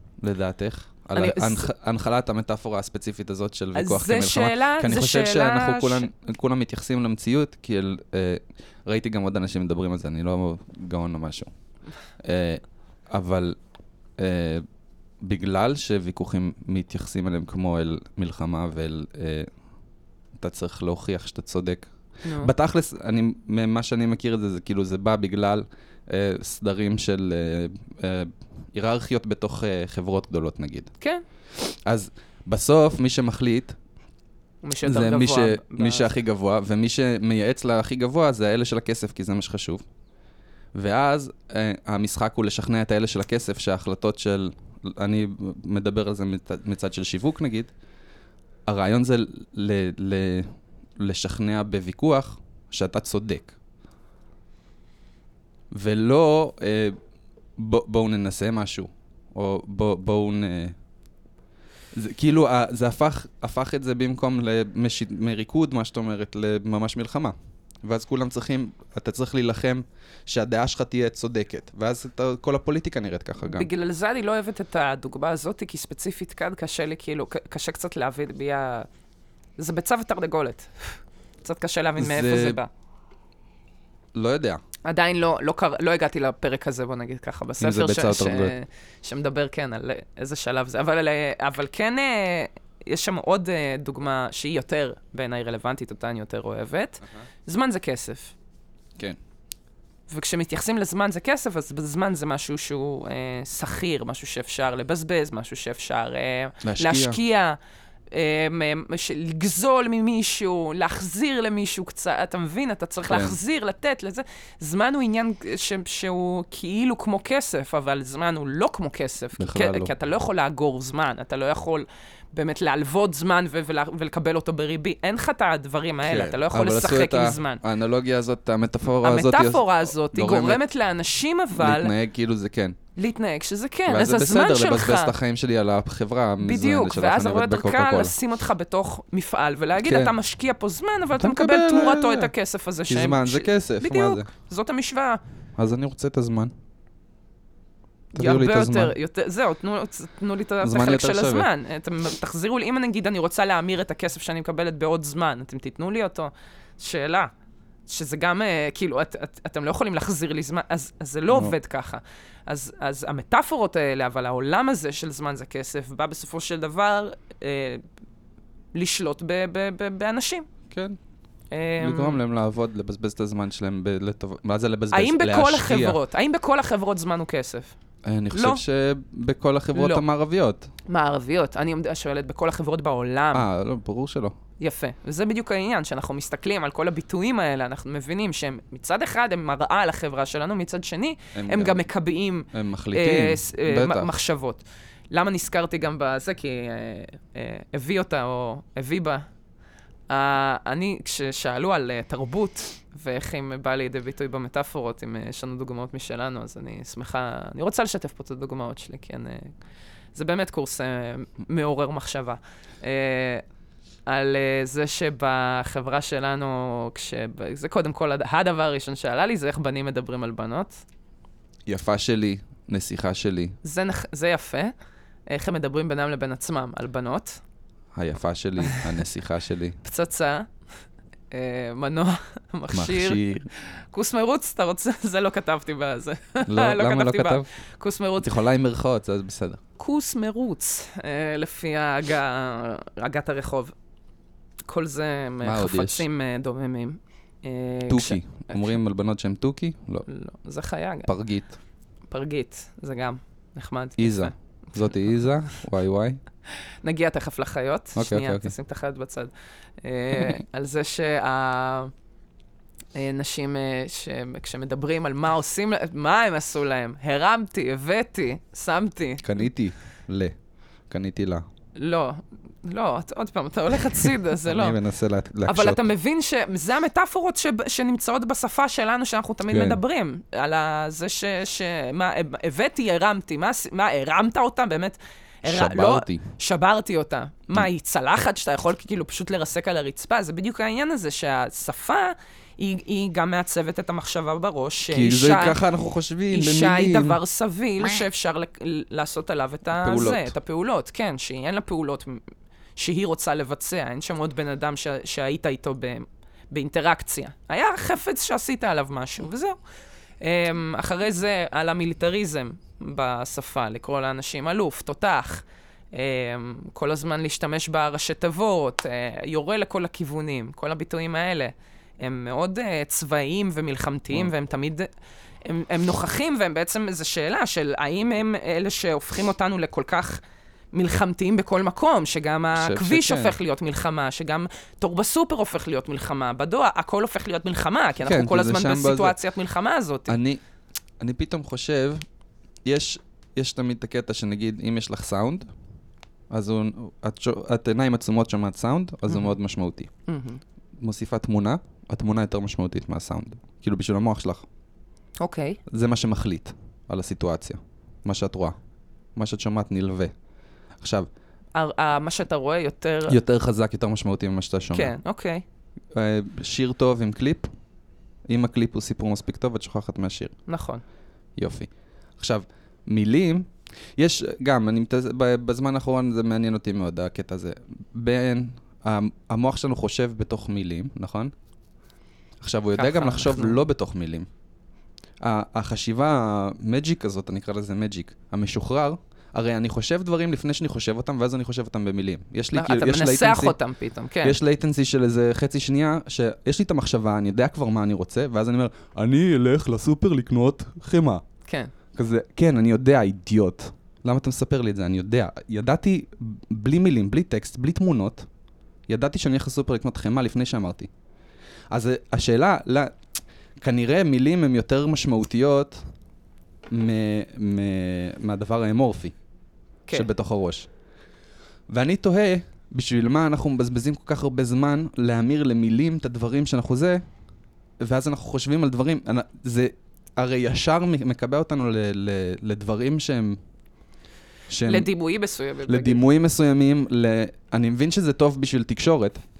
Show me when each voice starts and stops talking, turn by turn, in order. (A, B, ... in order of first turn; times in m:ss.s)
0:00.2-0:11.5 A
0:01.1-0:01.7 B
0:03.7-0:06.1 B
0:12.2-0:13.6 A
0:14.2-0:14.6 A
0:15.2-0:19.5 A
0:20.4-0:30.9 A
0:22.2-0:22.5 B
0:31.5-0:33.8 A
0:34.6-0:36.1 B
0:34.8-0:39.8 A
0:40.7-0:47.7 A
0:48.7-0:53.5 A
0:55.7-0:57.0 A
0:57.6-1:00.7 A
1:01.9-1:13.7 A
1:13.4-1:18.9 B
1:19.6-1:22.7 B
1:22.0-1:22.6 A
1:24.1-1:24.6 A
1:24.8-1:38.3 B
1:27.6-1:28.5 A
1:40.1-1:47.6 B
1:46.6-1:47.2 A
1:48.1-2:07.6 B
1:53.1-1:53.4 A
1:59.4-1:59.9 A
2:06.0-2:10.6 A
2:09.0-2:11.9 B
2:11.5-2:12.8 A
2:13.0-2:15.1 B
2:13.9-2:18.1 A
2:16.4-2:25.2 B
2:19.8-2:20.1 A
2:21.2-2:22.3 A
2:22.9-2:24.3 A
2:25.6-2:26.5 A
2:28.1-2:28.9 A
2:28.1-2:37.3 B
2:30.6-2:31.5 A
2:37.9-2:47.8 B
2:48.7-2:50.5 B
2:50.7-2:51.0 A
2:51.5-2:52.2 B
2:51.8-2:56.0 A
2:54.9-2:57.7 B
2:58.0-3:00.7 A
2:58.3-2:58.6 B
2:59.7-3:00.0 B
3:00.9-3:03.5 B
3:03.3-3:04.4 A
3:04.6-3:19.2 B
3:11.3-3:11.9 A
3:12.5-3:14.2 A
3:20.1-3:29.5 B
3:30.1-3:33.4 B
3:34.1-3:40.8 B
3:41.7-3:43.6 A
3:43.6-3:44.7 B
3:45.3-3:47.4 B
3:47.9-3:49.8 A
3:49.8-3:50.5 B
3:51.3-3:58.3 B
3:52.7-3:53.5 A
3:56.5-3:57.5 A
3:58.2-3:59.6 A
3:59.8-4:03.7 B
4:04.7-4:08.7 B
4:05.4-4:06.0 A
4:07.9-4:10.0 A
4:10.1-4:11.1 B
4:11.0-4:11.5 A
4:12.1-4:14.3 B
4:14.0-4:16.2 A
4:16.8-4:21.9 B
4:18.0-4:18.5 A
4:22.9-4:29.3 B
4:29.2-4:30.3 A
4:30.9-4:31.4 A
4:31.8-4:34.8 B
4:34.5-4:35.9 A
4:35.4-4:55.6 B
4:39.5-4:39.8 A
4:45.4-4:46.2 A
4:54.9-4:57.2 A
4:56.3-5:02.2 B
4:59.7-5:00.3 A
5:02.8-5:09.6 B
5:10.2-5:24.9 B
5:25.4-5:30.2 B
5:30.7-5:40.2 B
5:32.5-5:33.4 A
5:38.0-5:39.2 A
5:40.1-5:40.4 A
5:41.0-5:42.0 A
5:42.6-5:45.5 A
5:46.3-5:49.9 A
5:49.1-5:49.3 B
5:50.1-5:50.4 B
5:50.8-5:54.4 A
5:55.2-5:55.6 B
5:55.7-5:58.6 A
5:59.2-6:00.1 A
6:00.8-6:01.1 A
6:01.5-6:03.2 B
6:03.1-6:04.9 A
6:04.7-6:05.4 B
6:05.9-6:07.5 A
6:08.3-6:10.3 A
6:10.5-6:10.8 B
6:11.4-6:21.3 A
6:22.4-6:24.3 A
6:22.8-6:23.6 B
6:25.2-6:33.6 A
6:32.5-6:34.4 B
6:34.2-6:41.2 A
6:41.5-6:41.7 B
6:41.9-6:48.3 A
6:48.9-6:50.9 A
6:51.7-6:52.9 A
6:53.6-6:55.8 A
6:56.7-6:59.1 A
6:59.9-7:00.7 A
7:01.7-7:07.0 A
7:07.8-7:13.4 A
7:14.5-7:14.9 A
7:14.6-7:16.0 B
7:15.7-7:19.2 A